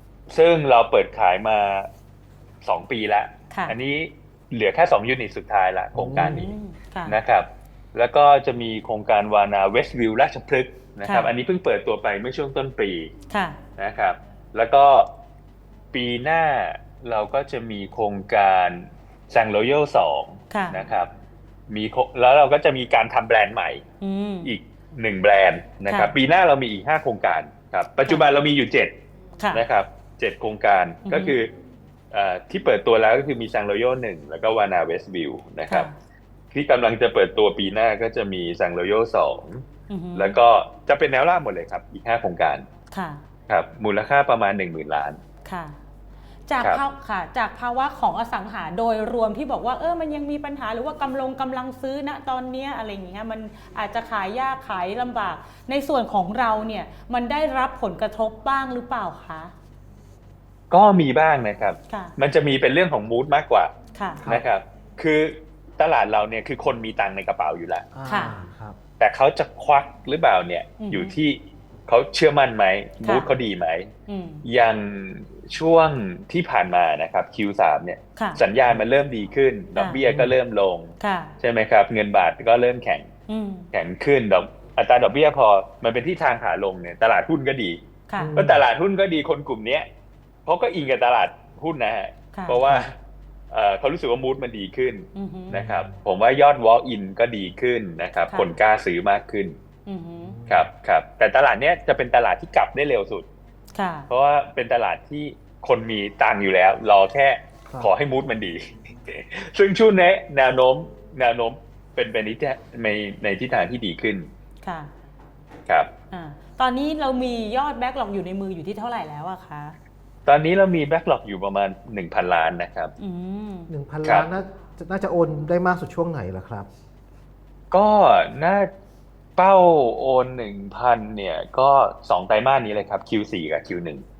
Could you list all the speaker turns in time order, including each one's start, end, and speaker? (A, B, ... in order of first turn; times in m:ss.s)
0:00.3-0:01.9 A
0:02.6-0:06.5 A
0:05.9-0:06.5 B
0:06.1-0:07.2 C
0:07.0-0:13.1 A
0:11.0-0:11.3 C
0:13.3-0:13.6 C
0:13.8-0:15.1 A
0:15.9-0:21.1 A
0:20.5-0:20.8 C
0:21.7-0:23.8 A
0:24.0-0:24.5 C
0:24.4-0:28.9 A
0:25.9-0:26.1 C
0:29.4-0:29.6 C
0:29.5-0:31.5 A
0:31.0-0:31.4 C
0:32.1-0:35.9 A
0:35.7-0:35.9 C
0:36.5-0:39.6 A
0:39.9-0:40.4 C
0:40.1-0:42.6 A
0:42.9-0:43.2 C
0:43.5-0:45.2 A
0:45.4-0:45.8 C
0:46.5-0:59.5 C
1:00.7-1:03.7 A
1:01.9-1:02.1 C
1:03.9-1:04.2 C
1:04.2-1:07.9 A
1:07.9-1:08.8 B
1:08.1-1:08.4 C
1:09.0-1:13.9 A
1:10.8-1:11.1 C
1:13.0-1:13.3 C
1:14.1-1:14.4 C
1:14.4-1:23.1 A
1:18.2-1:18.4 C
1:19.8-1:20.0 C
1:20.1-1:20.3 B
1:21.0-1:21.3 C
1:23.3-1:23.7 C
1:23.7-1:27.8 A
1:28.1-1:28.4 C
1:28.2-1:28.6 B
1:28.4-1:29.9 A
1:30.4-1:32.9 A
1:32.3-1:32.6 C
1:33.5-1:39.6 A
1:35.1-1:35.7 C
1:35.6-1:35.9 B
1:39.8-1:40.4 C
1:40.2-1:40.7 B
1:40.5-1:43.3 A
1:43.7-1:44.1 C
1:44.1-1:54.3 A
1:54.6-1:54.9 C
1:56.1-1:59.8 C
2:00.2-2:02.9 A
2:03.0-2:03.7 C
2:03.7-2:06.7 B
2:04.0-2:04.3 A
2:07.7-2:08.7 A
2:09.4-2:14.0 A